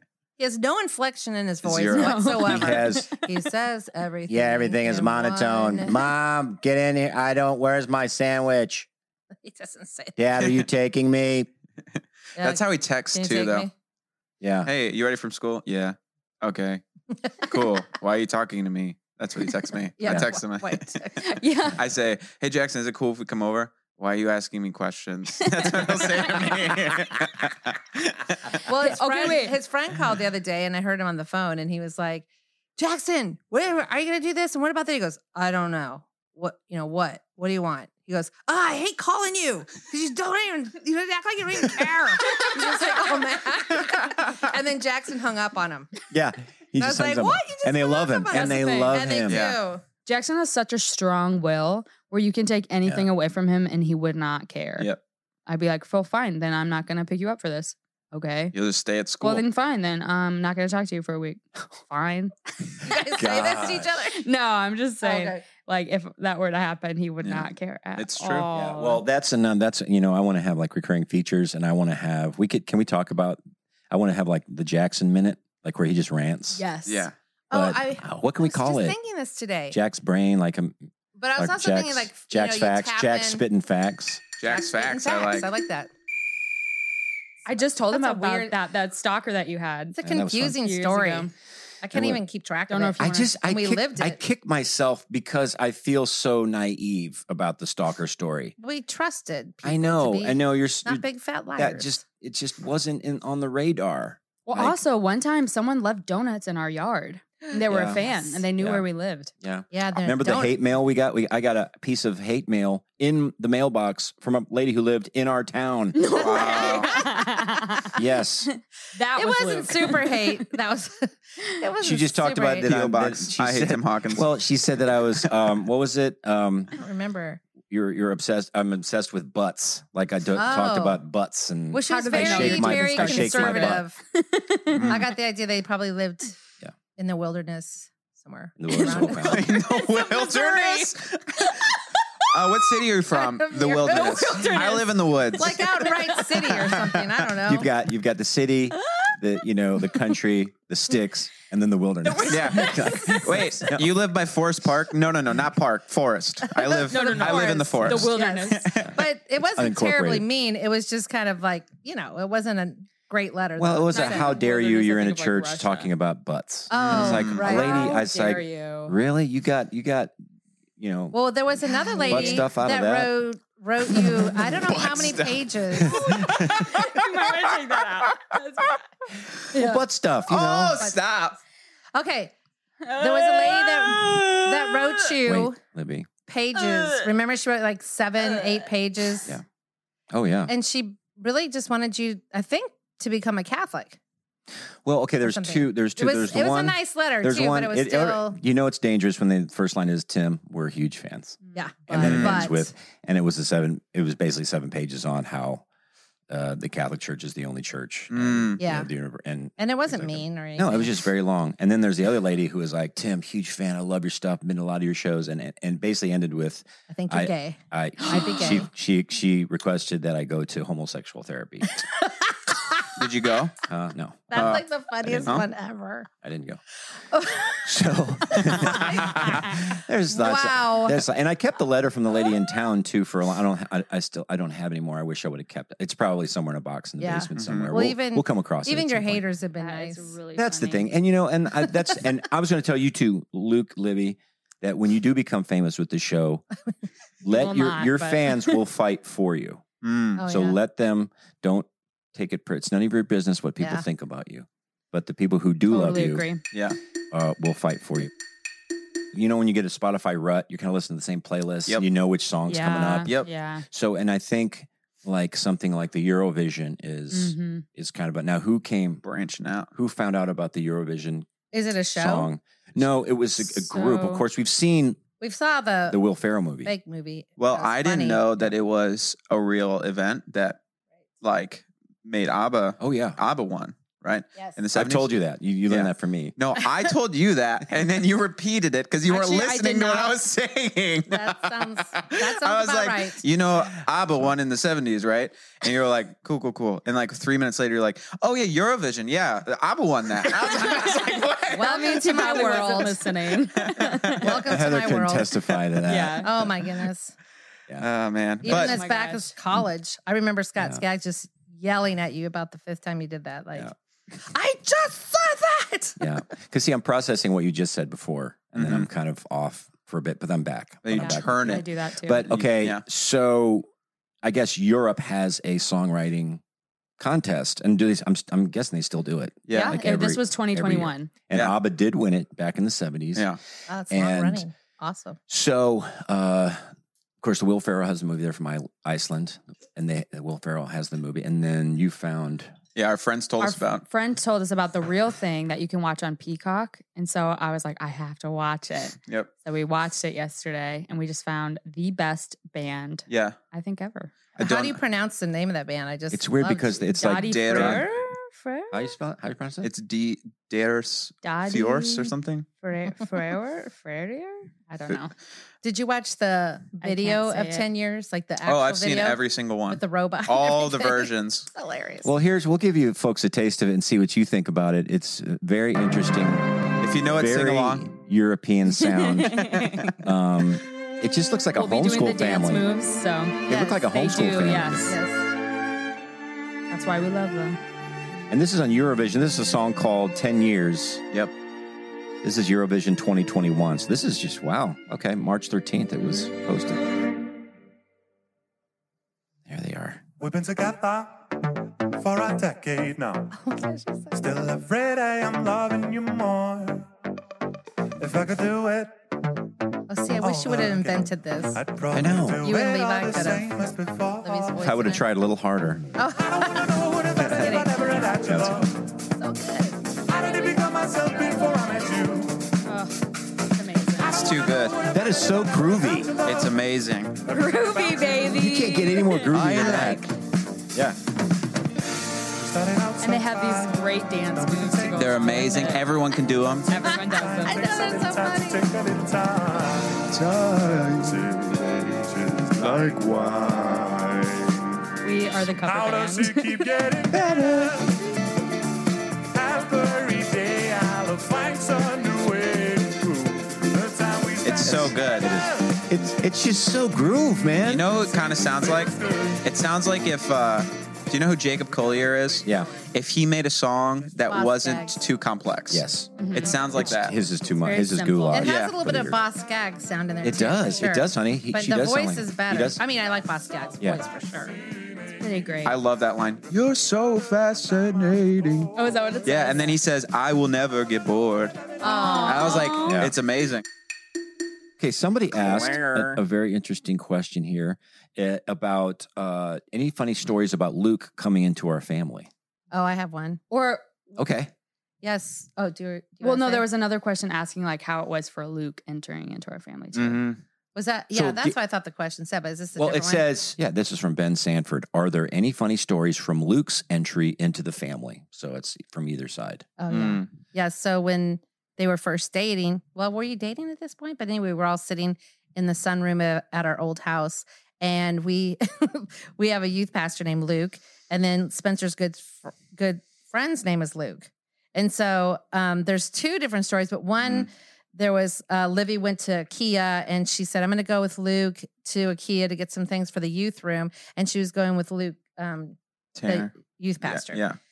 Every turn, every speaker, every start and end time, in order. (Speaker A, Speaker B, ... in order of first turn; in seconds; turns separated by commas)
Speaker A: 0.4-6.0, Speaker B: 1.6-2.1, Speaker C: 1.9-3.1, Speaker D: 2.4-3.1, Speaker D: 4.3-8.9, Speaker A: 9.4-10.2, Speaker D: 10.2-11.5, Speaker A: 12.4-13.7, Speaker B: 12.4-13.7, Speaker D: 14.4-14.7, Speaker B: 14.7-16.8, Speaker B: 17.4-21.0, Speaker A: 20.0-21.2, Speaker C: 21.2-21.8, Speaker B: 21.8-28.2, Speaker A: 28.7-46.0, Speaker C: 28.8-29.6, Speaker C: 42.5-42.9, Speaker D: 46.1-49.4, Speaker A: 46.8-49.8, Speaker C: 48.3-49.0, Speaker B: 49.3-49.6, Speaker C: 50.0-54.9, Speaker C: 55.5-58.5, Speaker B: 58.5-59.4, Speaker C: 59.2-62.3, Speaker A: 62.9-64.2, Speaker D: 63.1-63.9, Speaker C: 64.2-69.0, Speaker A: 65.0-65.5, Speaker B: 67.2-68.5, Speaker D: 68.5-76.6, Speaker C: 76.5-77.1, Speaker B: 76.9-77.1, Speaker A: 77.5-79.8, Speaker D: 77.5-79.0, Speaker D: 79.7-80.8, Speaker A: 81.2-83.4, Speaker D: 81.4-84.3, Speaker B: 84.4-85.5, Speaker A: 84.5-85.9, Speaker C: 87.5-91.3, Speaker A: 87.9-88.6, Speaker A: 90.0-91.3, Speaker D: 90.0-90.6, Speaker A: 91.8-94.2, Speaker D: 91.9-92.2, Speaker C: 92.7-93.3, Speaker D: 93.0-98.5, Speaker A: 98.6-102.0, Speaker D: 99.6-101.0, Speaker D: 101.6-104.8, Speaker C: 104.5-109.3, Speaker D: 107.7-108.0, Speaker A: 108.0-108.2, Speaker D: 108.6-108.8, Speaker D: 109.4-116.2, Speaker A: 109.7-110.6, Speaker C: 116.0-117.9, Speaker B: 116.2-116.9, Speaker A: 116.4-116.9, Speaker D: 117.9-118.5, Speaker C: 118.9-120.3, Speaker A: 119.2-122.7, Speaker D: 121.8-126.7, Speaker B: 122.6-124.3, Speaker A: 126.8-127.4, Speaker D: 127.6-133.8, Speaker A: 130.4-131.0, Speaker A: 131.7-134.0, Speaker C: 131.9-134.8, Speaker B: 134.7-135.0, Speaker A: 134.9-136.3, Speaker A: 137.0-139.4, Speaker D: 138.6-139.4, Speaker B: 139.1-141.5, Speaker C: 139.7-140.9, Speaker B: 142.3-145.9, Speaker A: 143.1-147.7, Speaker C: 144.2-144.8, Speaker B: 146.5-147.0, Speaker D: 147.4-153.9, Speaker B: 152.3-158.9, Speaker A: 156.8-164.3, Speaker C: 156.9-158.7, Speaker D: 159.6-160.2, Speaker D: 163.6-170.1, Speaker C: 163.9-165.9, Speaker A: 166.7-167.9, Speaker B: 166.7-167.6, Speaker C: 167.4-168.9, Speaker D: 170.8-171.2, Speaker A: 171.1-176.2, Speaker D: 172.1-173.1, Speaker B: 174.4-177.0, Speaker C: 176.6-178.8, Speaker D: 179.6-180.8, Speaker B: 180.3-181.4, Speaker A: 181.9-182.3, Speaker C: 182.8-184.0, Speaker A: 182.9-185.6, Speaker D: 185.2-186.1, Speaker A: 186.2-189.3, Speaker D: 190.1-190.5, Speaker A: 190.5-194.0, Speaker D: 194.8-205.6, Speaker A: 195.2-198.4, Speaker A: 201.5-202.7, Speaker B: 201.9-202.5, Speaker D: 206.3-221.7, Speaker B: 208.1-208.6, Speaker A: 208.6-208.9, Speaker A: 209.6-211.0, Speaker A: 216.9-218.7, Speaker B: 223.0-223.5, Speaker D: 223.7-225.4, Speaker A: 224.3-226.1, Speaker B: 224.3-224.6, Speaker D: 226.2-226.6, Speaker A: 227.1-227.6, Speaker D: 227.7-239.2, Speaker A: 228.5-229.2, Speaker A: 230.1-231.0, Speaker A: 237.0-240.2, Speaker B: 237.4-237.7, Speaker C: 239.6-240.9, Speaker D: 240.3-246.4, Speaker D: 247.2-249.6, Speaker C: 247.3-248.6, Speaker B: 249.8-250.2, Speaker A: 250.2-250.6, Speaker D: 250.2-256.3, Speaker C: 255.7-256.4, Speaker B: 256.5-256.8, Speaker D: 257.1-258.1, Speaker D: 259.1-263.1, Speaker C: 262.5-263.6, Speaker D: 263.7-269.0, Speaker C: 267.1-267.6, Speaker B: 269.0-269.7, Speaker D: 269.7-271.3, Speaker A: 271.5-272.3, Speaker D: 271.9-275.0, Speaker C: 273.7-274.2, Speaker A: 275.2-276.0, Speaker D: 275.9-276.7, Speaker A: 276.6-278.3, Speaker B: 277.4-280.6, Speaker B: 281.2-301.7, Speaker D: 282.8-283.2, Speaker D: 284.7-286.4, Speaker C: 289.1-290.1, Speaker A: 291.1-293.2, Speaker C: 300.6-300.9, Speaker A: 301.5-303.0, Speaker C: 301.5-304.2, Speaker B: 303.7-304.1, Speaker A: 304.2-305.3, Speaker D: 304.3-306.5, Speaker C: 305.9-306.3, Speaker A: 306.2-307.1, Speaker B: 307.8-308.8, Speaker A: 308.4-316.1, Speaker C: 308.5-309.3, Speaker D: 316.0-323.7, Speaker B: 318.6-318.9, Speaker B: 320.8-321.6, Speaker C: 321.4-322.3, Speaker B: 322.3-322.8, Speaker D: 324.2-326.4, Speaker D: 327.0-333.3, Speaker B: 329.5-329.8, Speaker C: 329.5-331.1, Speaker A: 333.7-335.2, Speaker D: 333.9-334.4, Speaker D: 335.3-336.6, Speaker D: 337.2-342.5, Speaker B: 342.8-343.8, Speaker C: 343.4-354.1, Speaker B: 353.1-353.4, Speaker B: 354.4-354.8, Speaker A: 354.4-356.9, Speaker D: 356.1-357.9, Speaker C: 356.9-358.0, Speaker B: 357.2-357.9, Speaker A: 357.8-358.6, Speaker D: 358.7-359.7, Speaker B: 359.6-362.5, Speaker C: 361.2-362.1, Speaker C: 362.6-365.1, Speaker A: 365.6-372.1, Speaker C: 366.8-367.7, Speaker B: 368.4-371.5, Speaker D: 372.0-376.5, Speaker B: 376.8-377.9, Speaker D: 377.1-382.7, Speaker C: 378.8-379.9, Speaker C: 381.6-384.9, Speaker D: 383.5-384.9, Speaker A: 383.5-383.8, Speaker A: 384.9-385.2, Speaker C: 386.7-387.6, Speaker D: 388.3-391.0, Speaker D: 392.2-396.8, Speaker D: 399.5-400.1, Speaker E: 400.2-401.4, Speaker E: 401.9-403.4, Speaker A: 403.3-404.2, Speaker E: 404.1-406.9, Speaker E: 408.0-409.0, Speaker A: 409.9-411.6, Speaker E: 410.2-414.6, Speaker D: 411.9-412.5, Speaker A: 412.4-413.5, Speaker A: 414.2-415.1, Speaker D: 414.6-415.9, Speaker A: 416.0-418.1, Speaker E: 416.2-418.9, Speaker D: 417.2-417.5, Speaker D: 418.1-418.7, Speaker A: 419.2-419.8, Speaker E: 420.1-422.5, Speaker C: 422.6-423.0, Speaker C: 423.5-424.3, Speaker B: 424.0-424.8, Speaker E: 424.4-426.5, Speaker D: 424.9-426.2, Speaker B: 426.2-427.2, Speaker C: 427.3-430.0, Speaker E: 427.3-428.3, Speaker D: 428.3-430.1, Speaker B: 429.3-430.1, Speaker E: 432.4-435.4, Speaker C: 433.0-435.8, Speaker B: 435.0-436.8, Speaker C: 436.7-437.7, Speaker A: 436.8-438.7, Speaker E: 436.9-440.2, Speaker D: 440.7-441.2, Speaker E: 440.8-444.5, Speaker C: 445.0-446.6, Speaker E: 445.6-447.9, Speaker D: 447.1-447.9, Speaker E: 449.3-455.6, Speaker B: 454.4-455.3, Speaker D: 454.6-457.9, Speaker B: 457.6-467.1, Speaker E: 458.0-459.4, Speaker D: 462.4-462.7, Speaker A: 464.3-465.0, Speaker D: 465.7-466.1, Speaker C: 466.2-466.6, Speaker D: 466.7-469.2, Speaker C: 467.6-468.5, Speaker A: 468.3-474.6, Speaker B: 468.4-468.8, Speaker D: 470.2-472.8, Speaker C: 475.2-475.8, Speaker B: 475.6-478.7, Speaker C: 478.8-479.8, Speaker B: 479.2-481.7, Speaker C: 481.8-483.0, Speaker A: 481.8-482.7, Speaker B: 482.2-483.6, Speaker D: 482.8-483.1, Speaker D: 484.8-492.3, Speaker B: 485.5-486.2, Speaker A: 492.7-493.4, Speaker C: 493.5-493.9, Speaker D: 494.2-494.5, Speaker A: 495.0-496.7, Speaker C: 496.2-500.2, Speaker B: 499.9-500.4, Speaker A: 500.8-503.3, Speaker D: 501.1-501.6, Speaker D: 502.8-509.7, Speaker A: 509.8-537.4, Speaker B: 509.9-510.4, Speaker B: 527.2-527.5, Speaker B: 536.2-536.5, Speaker B: 537.0-537.6